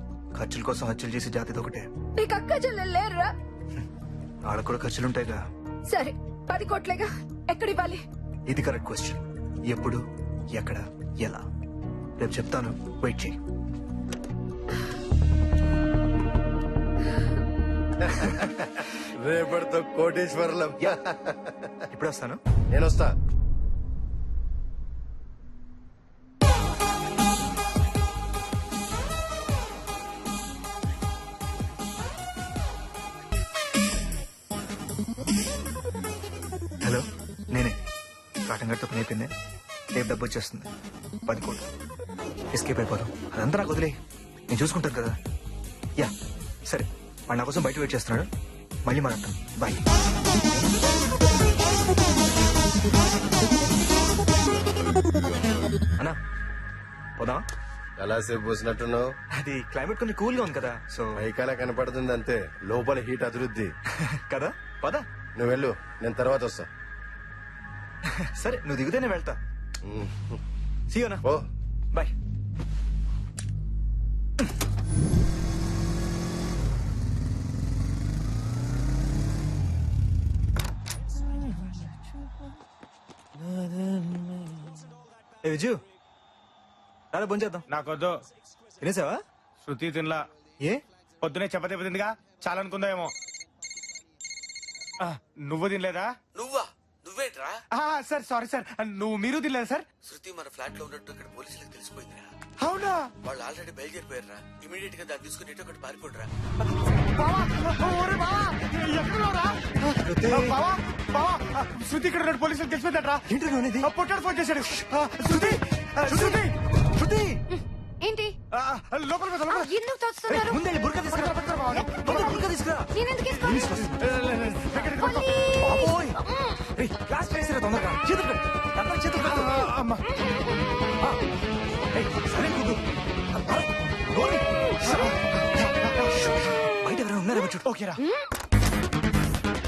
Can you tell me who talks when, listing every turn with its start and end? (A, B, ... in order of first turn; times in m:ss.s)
0:00.3-0:01.9 A
0:02.1-0:03.3 B
0:04.5-0:05.4 A
0:05.9-0:08.0 B
0:08.5-0:10.0 A
0:10.6-0:11.4 A
0:12.2-0:13.4 A
0:18.1-0:21.9 C
0:21.9-0:22.4 A
0:22.7-0:23.1 C
0:36.8-0:37.8 A
0:38.5-0:39.3 A
0:39.9-0:40.7 A
0:41.3-0:41.6 A
0:42.5-0:43.9 A
0:44.5-0:45.1 A
0:46.7-0:48.3 A
0:48.8-0:49.8 A
0:57.2-0:57.4 A
0:58.0-0:59.1 C
0:59.4-1:01.2 A
1:01.1-1:03.7 C
1:04.0-1:05.0 A
1:05.4-1:06.7 C
1:08.3-1:09.4 A
1:09.8-1:10.4 C
1:10.9-1:11.2 A
1:23.5-1:24.6 A
1:25.4-1:25.8 A
1:27.1-1:27.6 A
1:27.7-1:28.2 D
1:28.8-1:29.2 A
1:29.6-1:30.2 D
1:31.2-1:33.1 D
1:35.0-1:36.1 D
1:36.3-1:37.6 E
1:37.7-1:39.9 D
1:40.0-1:42.3 E
1:42.6-1:43.1 D
1:43.2-1:46.3 E
1:47.2-1:53.2 D
1:50.0-1:50.6 A
1:53.3-1:53.9 A
1:53.8-1:56.5 D
1:55.2-1:57.4 A
1:57.5-1:58.3 B
1:58.5-1:59.7 D
1:59.5-2:00.6 B
2:00.3-2:02.9 A
2:01.1-2:02.4 D
2:01.8-2:04.0 B
2:03.4-2:04.8 A
2:04.0-2:05.3 D
2:05.0-2:06.7 B
2:05.6-2:06.2 A
2:06.8-2:09.7 A
2:09.2-2:10.0 D
2:10.0-2:11.0 B
2:11.0-2:11.2 A
2:11.9-2:12.8 A
2:13.3-2:14.4 A
2:14.7-2:15.0 B
2:14.8-2:16.2 D
2:16.4-2:16.7 B
2:16.7-2:17.7 A
2:17.6-2:18.0 D
2:18.0-2:18.3 B